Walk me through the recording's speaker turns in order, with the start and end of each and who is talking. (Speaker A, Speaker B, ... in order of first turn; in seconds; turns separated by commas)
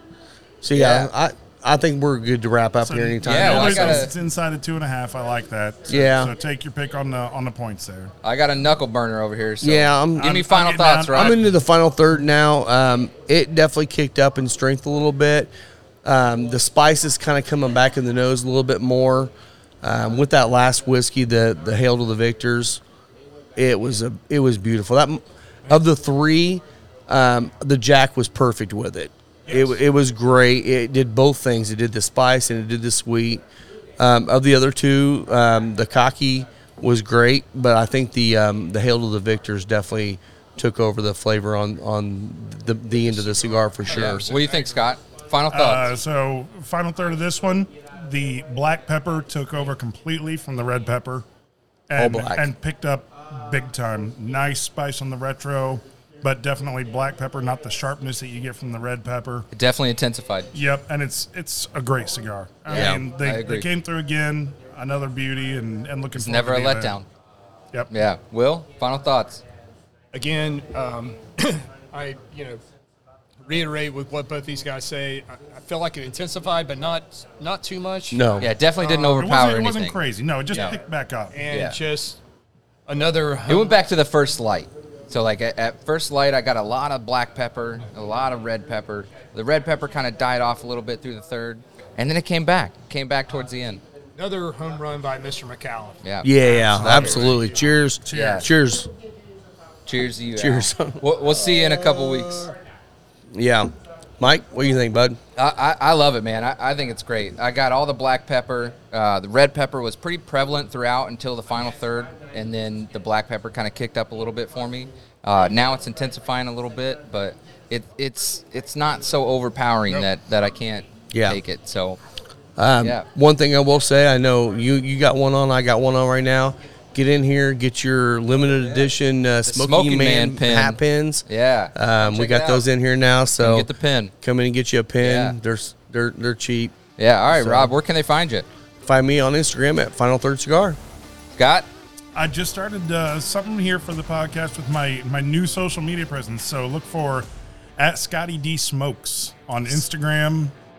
Speaker A: 0.6-4.1, Speaker B: 0.7-1.1, Speaker C: 2.8-8.1, Speaker B: 3.2-4.1, Speaker A: 5.9-6.3, Speaker B: 8.2-11.5, Speaker A: 9.6-10.4, Speaker C: 10.2-11.5, Speaker A: 11.1-15.5, Speaker A: 16.0-22.8, Speaker A: 23.6-33.4, Speaker D: 29.5-29.8, Speaker A: 34.0-44.2, Speaker D: 43.1-45.0, Speaker B: 43.9-45.9, Speaker C: 45.5-51.3, Speaker C: 51.9-59.5, Speaker A: 52.0-52.5, Speaker B: 59.5-60.6, Speaker C: 60.5-67.0, Speaker B: 62.7-63.7, Speaker A: 62.7-63.0, Speaker B: 66.2-67.1, Speaker B: 67.9-69.4, Speaker D: 70.1-72.6, Speaker D: 73.4-79.3, Speaker A: 78.1-78.5, Speaker B: 78.4-80.0, Speaker C: 79.2-81.4, Speaker D: 81.3-82.2, Speaker B: 81.5-81.8, Speaker D: 82.9-83.8, Speaker B: 83.5-93.8, Speaker D: 94.2-97.7, Speaker B: 96.0-97.3, Speaker A: 96.2-98.9, Speaker C: 96.8-97.2, Speaker C: 98.0-98.5, Speaker B: 98.1-98.5, Speaker B: 99.9-102.6, Speaker A: 100.4-101.0, Speaker A: 103.3-105.2, Speaker B: 105.4-122.0, Speaker A: 121.1-121.4, Speaker A: 122.6-131.2, Speaker B: 122.8-123.1, Speaker B: 129.5-132.7, Speaker A: 131.8-133.7, Speaker B: 133.4-134.1, Speaker A: 134.2-136.8, Speaker B: 135.0-135.3, Speaker B: 137.0-138.5, Speaker A: 137.3-137.8, Speaker A: 138.8-140.8, Speaker B: 141.4-141.7, Speaker C: 142.2-147.3, Speaker C: 147.8-150.5